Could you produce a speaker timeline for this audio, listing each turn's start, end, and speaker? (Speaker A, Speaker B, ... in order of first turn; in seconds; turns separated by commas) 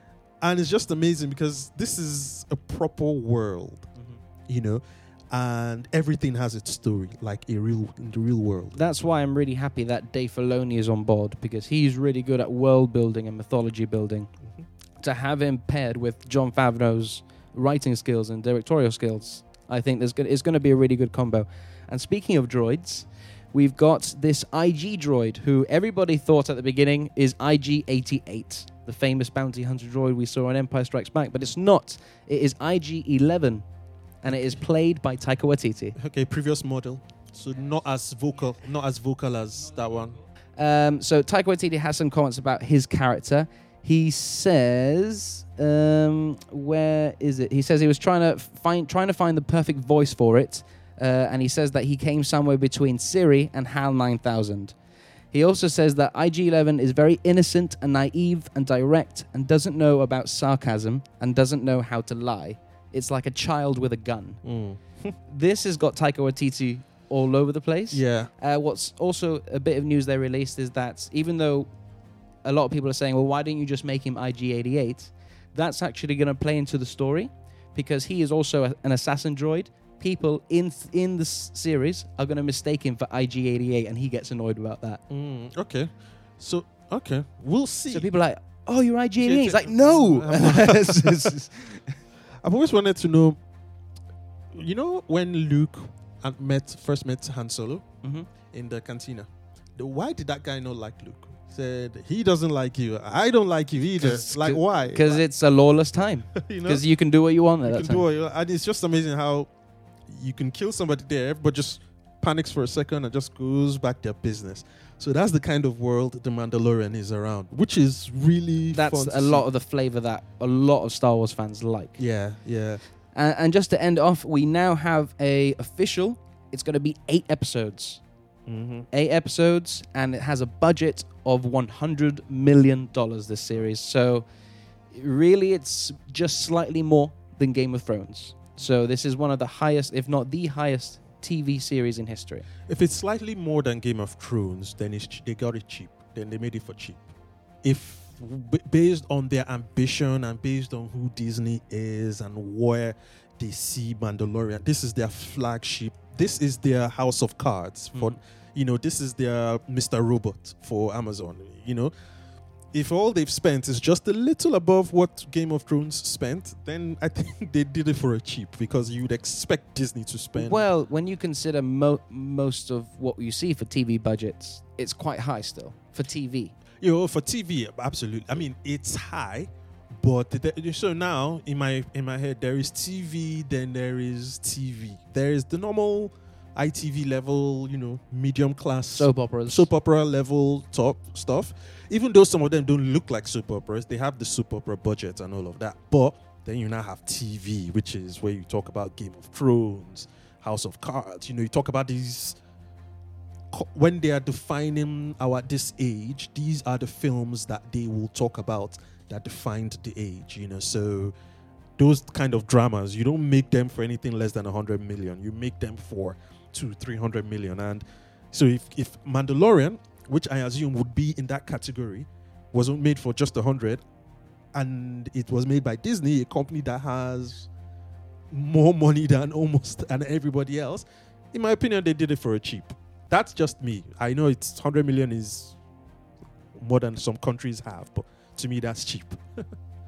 Speaker A: 0.4-8.8, Speaker B: 8.7-14.3, Speaker B: 15.0-33.7, Speaker B: 34.2-36.0, Speaker A: 36.0-40.2, Speaker B: 40.6-54.8, Speaker B: 55.3-64.4, Speaker A: 64.4-65.2, Speaker B: 65.3-71.7, Speaker A: 67.9-68.3, Speaker B: 72.4-85.0, Speaker A: 85.1-88.1, Speaker B: 87.9-92.0, Speaker A: 89.2-91.4, Speaker A: 92.4-93.4, Speaker A: 94.5-97.9, Speaker B: 98.0-98.3, Speaker A: 98.5-105.2, Speaker B: 104.0-108.0, Speaker A: 106.3-106.8, Speaker A: 107.7-109.5, Speaker A: 110.1-119.4, Speaker B: 118.7-122.0, Speaker A: 122.0-122.8, Speaker B: 123.2-128.0, Speaker A: 128.5-128.9, Speaker B: 128.9-134.3, Speaker B: 134.9-142.5, Speaker A: 142.7-147.0, Speaker A: 147.6-161.9, Speaker A: 162.7-170.7, Speaker B: 170.3-176.6, Speaker A: 176.8-202.4, Speaker B: 188.9-189.7, Speaker A: 203.5-211.2, Speaker A: 211.8-223.8, Speaker A: 224.5-227.5, Speaker A: 228.3-235.6, Speaker A: 236.5-239.5